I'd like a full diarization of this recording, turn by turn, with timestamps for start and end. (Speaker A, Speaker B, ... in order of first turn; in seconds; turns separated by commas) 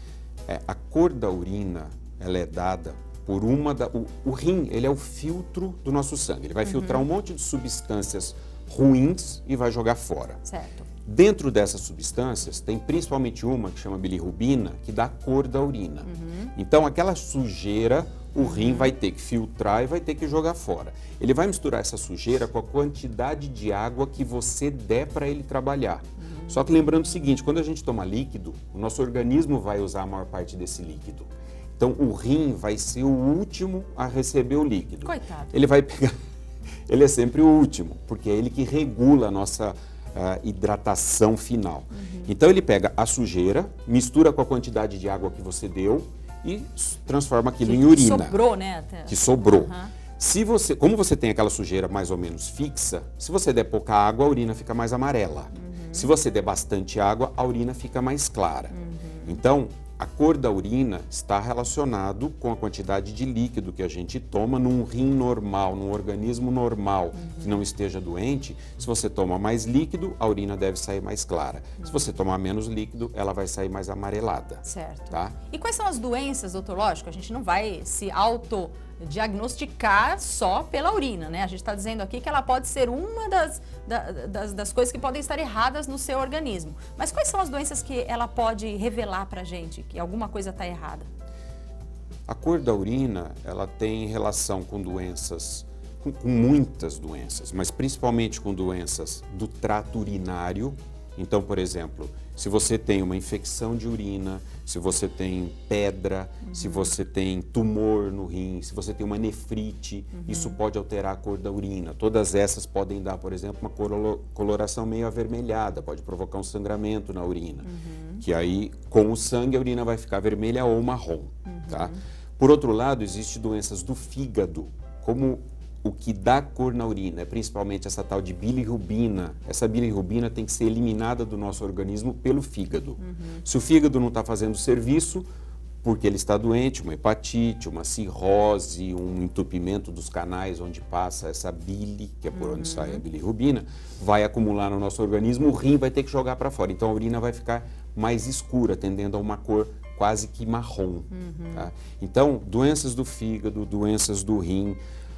Speaker A: 0.5-10.4, Speaker B: 6.7-7.0, Speaker B: 10.4-10.9, Speaker A: 11.1-36.2, Speaker B: 16.1-16.5, Speaker B: 18.4-18.9, Speaker B: 26.2-26.6, Speaker B: 35.0-35.6, Speaker A: 36.9-48.4, Speaker B: 41.9-42.3, Speaker B: 47.6-49.9, Speaker A: 49.1-75.3, Speaker B: 55.5-56.1, Speaker B: 58.7-59.4, Speaker B: 67.2-67.6, Speaker B: 74.6-91.1, Speaker A: 92.3-135.3, Speaker B: 106.5-106.9, Speaker B: 110.2-110.6, Speaker B: 117.7-118.2, Speaker B: 121.5-122.0, Speaker B: 133.0-133.4, Speaker A: 135.8-154.8, Speaker B: 142.3-143.0, Speaker B: 151.1-151.7